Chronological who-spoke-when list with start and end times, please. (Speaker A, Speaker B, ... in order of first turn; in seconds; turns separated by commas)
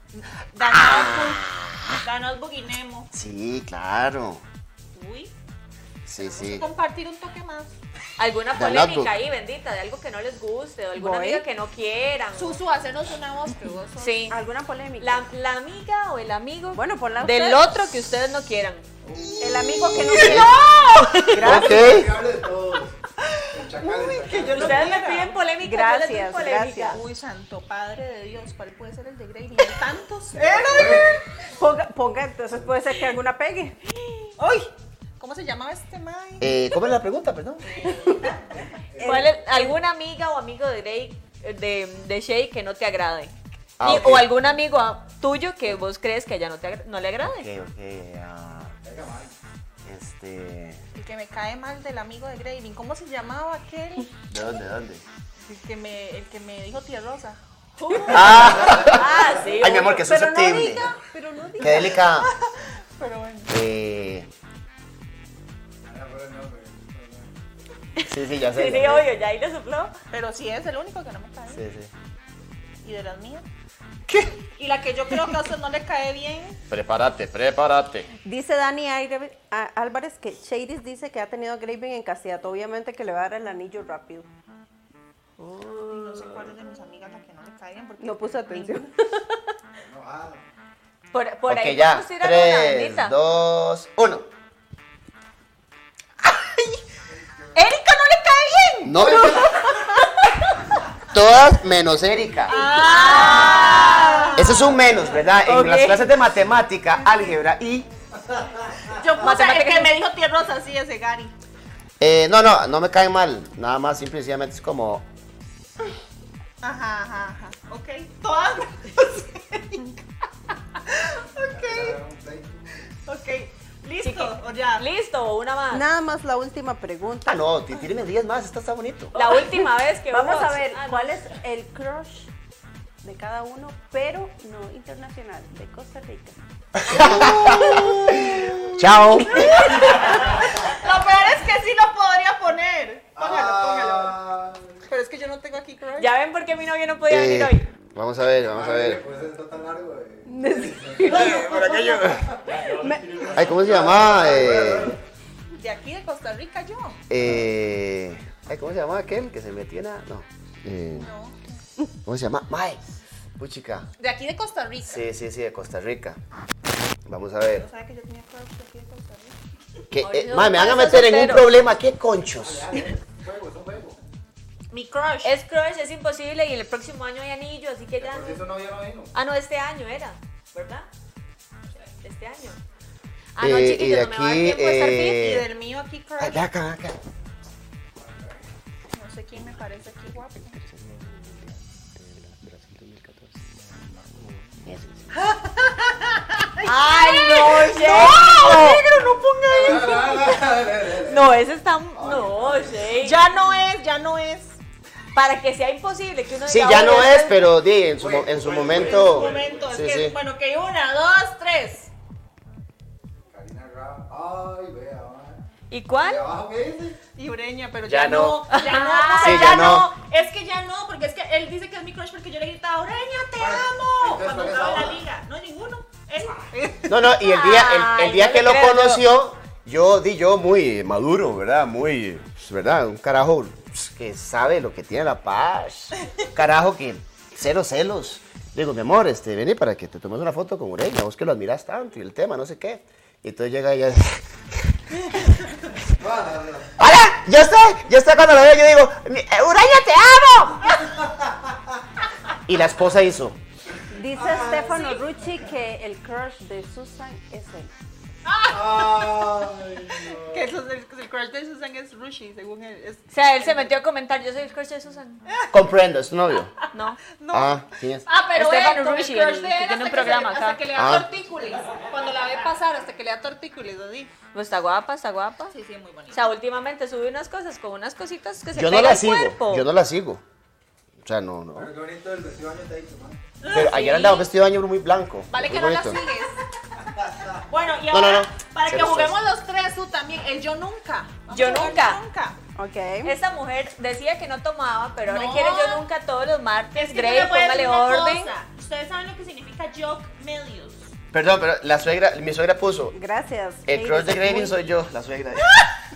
Speaker A: 0.1-1.5, Speaker B: 0.6-2.0, Speaker A: 2.0-3.1, Speaker B: 3.1-4.4, Speaker A: 4.9-5.3, Speaker B: 6.1-6.7, Speaker A: 6.2-7.8, Speaker C: 8.2-12.6, Speaker B: 8.5-9.1, Speaker D: 11.0-11.4, Speaker A: 12.3-14.3, Speaker C: 14.0-14.4, Speaker D: 14.3-15.3, Speaker C: 15.0-18.9, Speaker D: 16.7-17.6, Speaker E: 19.0-19.4, Speaker A: 19.4-21.7, Speaker D: 19.4-21.7, Speaker B: 19.8-22.1, Speaker E: 21.4-23.0, Speaker A: 23.2-25.3, Speaker E: 23.5-24.9, Speaker C: 24.5-27.0, Speaker D: 25.6-27.0, Speaker A: 26.8-31.2, Speaker E: 30.3-31.2, Speaker D: 31.6-33.8, Speaker A: 34.4-36.8, Speaker B: 36.4-37.8, Speaker A: 37.7-38.4, Speaker E: 38.4-39.3, Speaker D: 39.0-39.8, Speaker C: 39.0-47.5, Speaker B: 43.8-44.3, Speaker B: 47.2-48.7, Speaker E: 48.8-49.3, Speaker B: 49.9-50.8, Speaker A: 50.9-54.1, Speaker B: 54.3-55.0, Speaker A: 55.4-58.4, Speaker C: 57.9-60.1, Speaker B: 58.1-60.9, Speaker E: 58.4-59.3, Speaker D: 59.9-62.0, Speaker B: 61.6-62.3, Speaker A: 61.7-63.5, Speaker B: 63.5-64.3, Speaker E: 65.8-67.3, Speaker C: 68.0-70.0, Speaker B: 68.0-69.1, Speaker A: 70.1-71.6, Speaker B: 71.5-71.9, Speaker A: 72.8-73.5, Speaker B: 74.1-74.4, Speaker A: 74.6-76.6, Speaker B: 76.7-78.1, Speaker D: 78.2-84.3, Speaker C: 85.4-86.2, Speaker A: 85.9-88.9, Speaker D: 88.0-89.4, Speaker E: 89.8-90.4, Speaker C: 91.1-93.2, Speaker B: 91.5-94.3, Speaker A: 96.3-96.8, Speaker E: 97.1-97.6, Speaker A: 97.5-99.4, Speaker B: 98.8-99.6, Speaker E: 99.0-99.8, Speaker B: 101.1-102.7, Speaker A: 102.5-104.8, Speaker C: 102.5-104.3, Speaker B: 104.4-107.9, Speaker C: 105.4-106.1, Speaker E: 108.2-108.9, Speaker A: 108.9-111.3, Speaker C: 109.2-110.0, Speaker B: 112.0-115.1, Speaker A: 116.6-120.0, Speaker A: 120.8-122.0, Speaker E: 121.5-122.8, Speaker A: 123.0-124.9, Speaker C: 124.0-125.8, Speaker D: 125.7-127.4, Speaker B: 127.3-129.1, Speaker C: 129.1-131.2, Speaker D: 129.2-132.3, Speaker D: 133.0-136.4, Speaker B: 136.8-140.0, Speaker D: 137.0-137.9, Speaker A: 139.3-144.2, Speaker E: 139.8-140.7, Speaker E: 143.2-144.8, Speaker A: 144.9-146.1, Speaker C: 146.0-147.7, Speaker B: 147.1-149.0, Speaker E: 148.5-155.0, Speaker D: 150.3-152.0, Speaker B: 151.1-152.6, Speaker D: 152.6-153.3, Speaker B: 153.3-155.0, Speaker A: 155.6-157.1, Speaker B: 157.1-161.1, Speaker A: 160.9-161.6, Speaker B: 162.1-162.8, Speaker B: 163.4-163.9, Speaker A: 164.0-165.0, Speaker B: 164.8-166.2, Speaker B: 167.1-167.7, Speaker A: 167.5-169.4, Speaker B: 169.9-172.8, Speaker C: 170.0-171.6, Speaker E: 172.3-174.0, Speaker A: 174.7-175.3, Speaker C: 175.2-178.5, Speaker E: 178.0-179.1, Speaker C: 179.1-180.9, Speaker C: 182.0-182.6, Speaker C: 183.4-185.3, Speaker B: 183.4-185.5, Speaker A: 185.0-186.4, Speaker B: 186.2-187.0, Speaker E: 188.0-188.4, Speaker A: 188.9-190.6, Speaker B: 190.6-193.5, Speaker E: 193.6-194.6, Speaker B: 194.6-195.1, Speaker A: 195.9-200.3, Speaker C: 196.6-198.8, Speaker B: 198.4-198.8, Speaker E: 199.4-201.4, Speaker C: 200.0-203.2, Speaker E: 201.9-202.9, Speaker A: 203.0-204.6, Speaker C: 205.1-207.4, Speaker B: 206.5-210.2, Speaker E: 208.0-209.9, Speaker A: 208.7-211.9, Speaker E: 213.3-215.4, Speaker C: 215.7-216.3, Speaker E: 216.0-217.0, Speaker A: 217.2-227.0, Speaker B: 217.8-218.5, Speaker C: 218.5-219.7, Speaker B: 219.2-219.9, Speaker E: 223.4-225.0, Speaker B: 226.9-245.3, Speaker C: 227.2-229.0, Speaker E: 245.9-246.8, Speaker B: 246.8-250.8, Speaker E: 250.7-251.8, Speaker B: 252.5-253.4, Speaker D: 253.9-257.7, Speaker E: 254.2-254.7, Speaker A: 258.2-263.7, Speaker E: 258.5-260.5, Speaker C: 263.1-265.2, Speaker A: 265.3-265.6, Speaker B: 265.5-266.5, Speaker C: 266.7-267.0, Speaker A: 267.2-274.1, Speaker B: 267.3-268.1, Speaker C: 268.3-270.6, Speaker B: 270.7-271.1, Speaker C: 274.3-275.6, Speaker A: 275.5-276.3, Speaker C: 276.1-279.7, Speaker B: 278.5-280.2, Speaker B: 281.0-281.7, Speaker E: 281.6-283.2, Speaker A: 283.4-284.3, Speaker B: 283.5-286.0, Speaker C: 283.7-284.1, Speaker A: 285.3-286.4, Speaker E: 286.8-287.4, Speaker A: 287.4-292.4, Speaker B: 287.9-289.2, Speaker C: 291.3-292.0, Speaker D: 292.6-293.1, Speaker C: 293.0-298.3, Speaker A: 295.1-295.9, Speaker A: 296.8-300.9, Speaker B: 301.1-303.0, Speaker D: 302.9-304.6, Speaker B: 303.7-305.6, Speaker A: 305.4-305.7